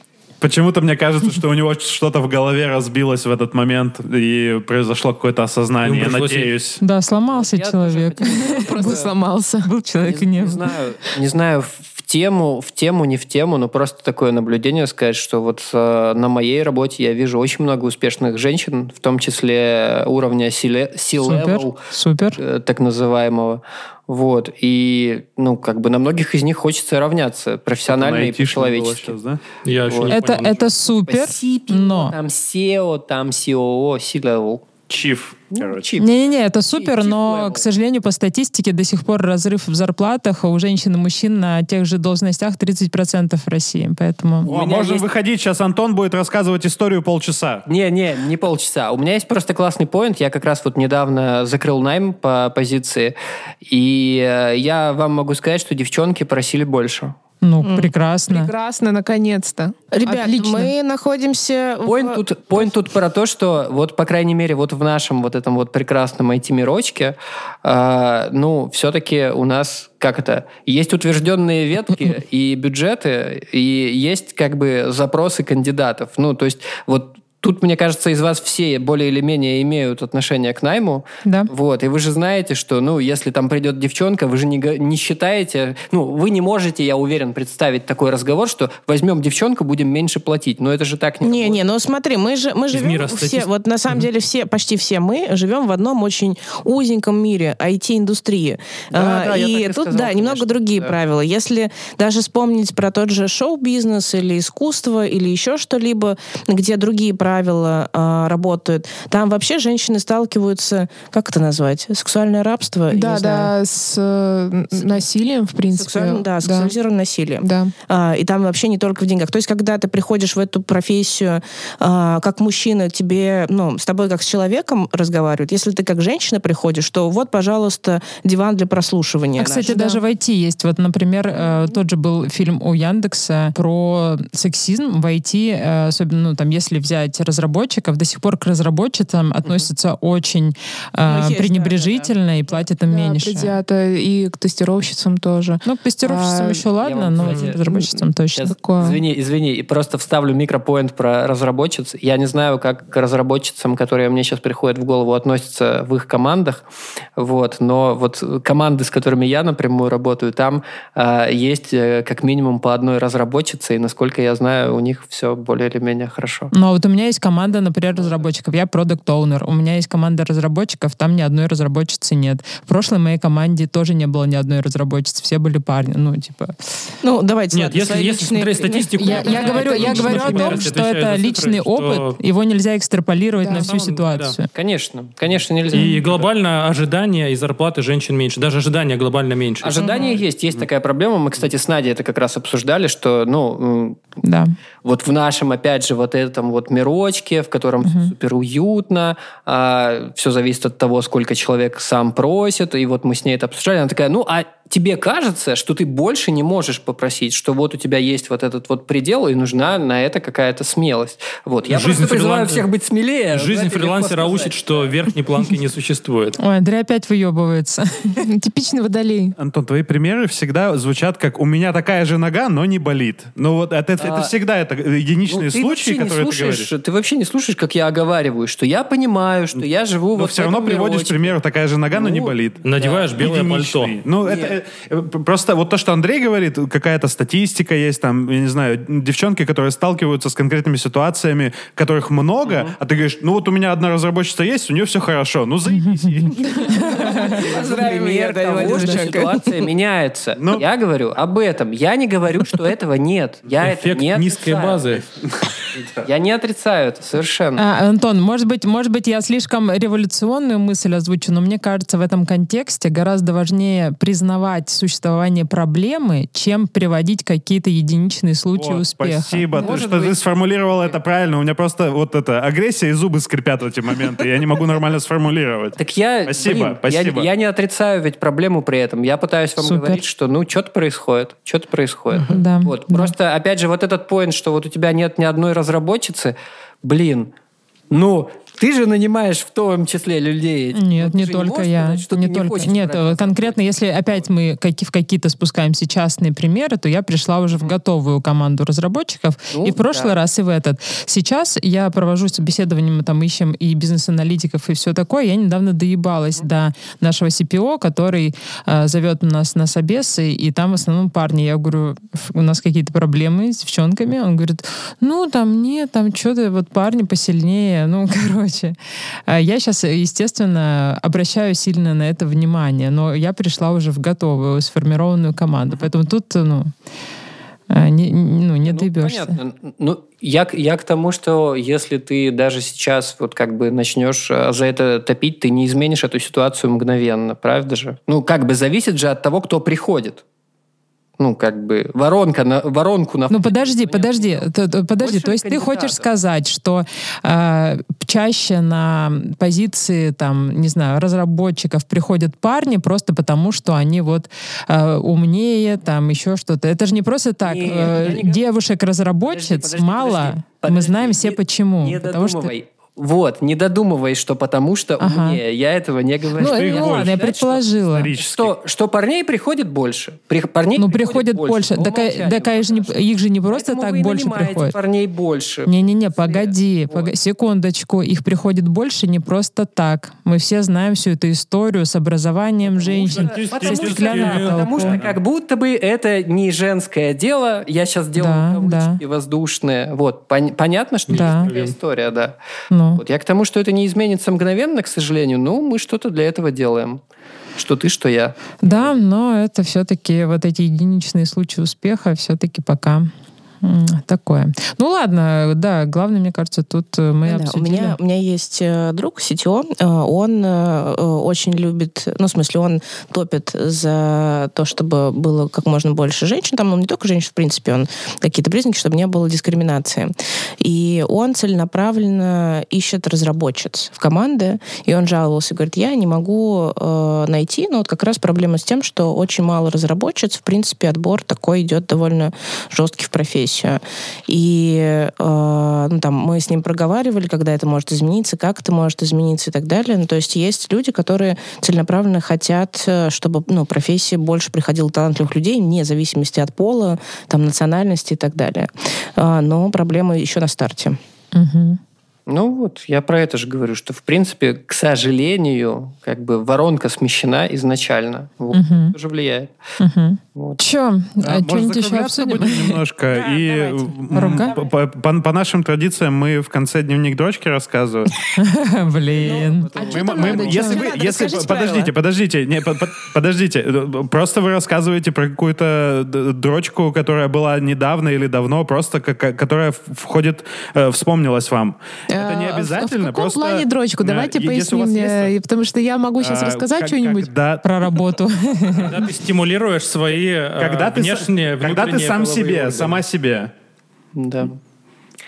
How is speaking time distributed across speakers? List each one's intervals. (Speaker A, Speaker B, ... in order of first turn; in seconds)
Speaker A: 0.4-6.8, 27.9-29.4, 34.9-35.9, 44.5-47.6, 219.4-226.7, 229.5-246.6, 250.4-250.6, 255.7-256.0, 268.5-277.3, 366.4-367.2, 367.9-368.6, 461.2-468.1, 469.9-485.3, 486.2-487.6, 490.6-493.5
Speaker B: 5.8-6.5, 29.6-30.6, 92.7-93.5, 177.5-182.2, 183.5-184.3, 185.7-189.9, 211.7-212.6, 213.3-216.4, 232.6-234.0, 253.6-255.1, 383.1-385.0, 391.1-391.7, 488.7-493.0
Speaker C: 6.8-9.0, 9.7-10.6, 21.2-22.4, 30.1-32.1, 36.0-44.5, 57.4-58.5, 81.2-81.5, 129.4-143.6, 145.6-148.5, 166.5-176.6, 179.0-184.5, 194.2-194.5, 197.8-198.1, 216.4-218.2, 245.7-247.1, 257.6-269.6, 279.6-280.0, 282.2-283.1, 290.7-318.8, 319.3-326.7, 327.7-329.4, 343.3-362.5, 365.0-365.4, 366.4-368.1, 370.8-374.7, 375.6-385.0, 388.1-389.0, 391.1-391.5, 392.7-393.0, 398.6-403.1, 403.6-408.0, 451.3-451.8, 458.5-458.9, 459.8-462.8, 464.1-464.5, 468.4-469.8, 487.6-489.0
Speaker D: 7.3-9.1, 10.0-29.1, 29.7-34.7, 35.5-37.6, 44.4-45.1, 47.6-57.1, 61.8-91.6, 98.9-101.0, 146.7-166.5, 167.9-168.3, 184.5-185.9, 189.6-194.0, 194.8-214.9, 224.0-224.3, 225.3-231.3, 231.9-233.1, 234.2-234.5, 242.4-242.7, 247.1-255.0, 256.0-257.6, 269.5-270.2, 275.8-287.3, 287.9-294.3, 299.5-300.1, 328.6-340.2, 341.2-346.1, 357.4-358.4, 359.2-367.6, 368.2-377.1, 382.6-392.4, 393.0-397.0, 397.5-399.0, 452.3-459.5, 468.8-470.0, 494.1-494.6
Speaker E: 8.4-9.9, 58.3-60.7, 112.9-116.7, 117.4-117.7, 129.6-130.0, 142.9-146.6, 148.4-149.0, 179.0-180.6, 183.4-183.7, 189.8-190.2, 218.2-219.3, 246.4-247.5, 248.5-249.4, 469.8-470.9, 482.1-487.3
Speaker F: 59.9-62.6, 91.2-113.5, 114.7-115.0, 115.7-129.7, 141.0-142.1, 177.0-179.6, 246.7-249.5, 407.2-451.0, 463.1-464.6, 469.4-471.9